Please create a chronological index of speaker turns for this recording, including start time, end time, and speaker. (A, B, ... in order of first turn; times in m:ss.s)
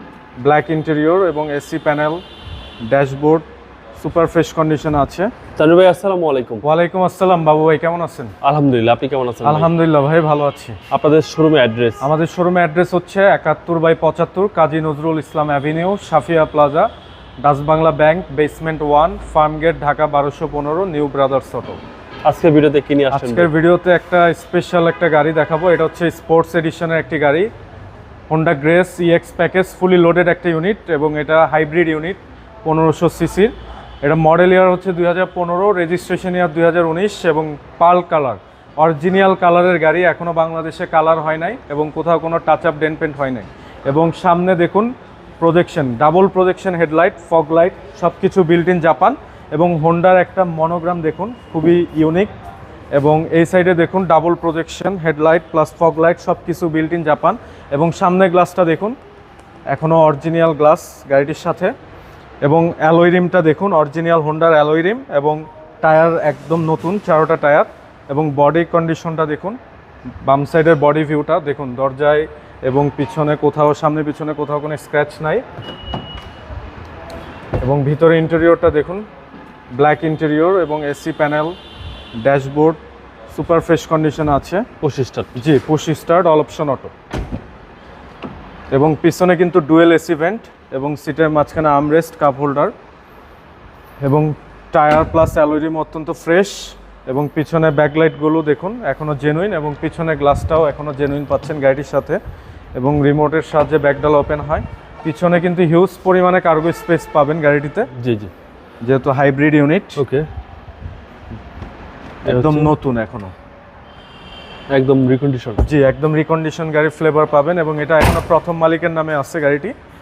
0:00.4-0:02.2 A
0:02.9-0:03.4 A
0:04.0-0:05.3 A
0:05.5-0:06.6 B
0:06.6-0:08.3 A
0:08.4-0:09.7 B
0:09.4-0:10.8 A
0:10.9-0:12.1 B
0:12.0-0:16.9 A
0:17.4-0:21.8 A
0:22.2-0:23.5 B
0:23.1-0:27.5 A
0:28.3-0:52.3 A
0:52.9-0:59.0 A
0:59.7-1:01.7 A
1:02.4-1:09.6 A
1:10.2-1:15.4 A
1:17.6-1:19.0 A
1:19.7-1:21.6 A
1:22.2-1:22.8 A
1:23.3-1:24.7 A
1:24.8-1:25.4 B
1:25.4-1:26.9 A
1:28.7-1:32.7 A
1:34.0-1:42.2 A
1:42.7-1:47.9 A
1:47.9-1:48.3 B
1:48.8-1:50.0 A
1:50.0-1:50.2 B
1:52.2-1:53.3 A
1:52.2-1:52.7 B
1:54.7-1:55.6 B
1:55.6-1:59.7 A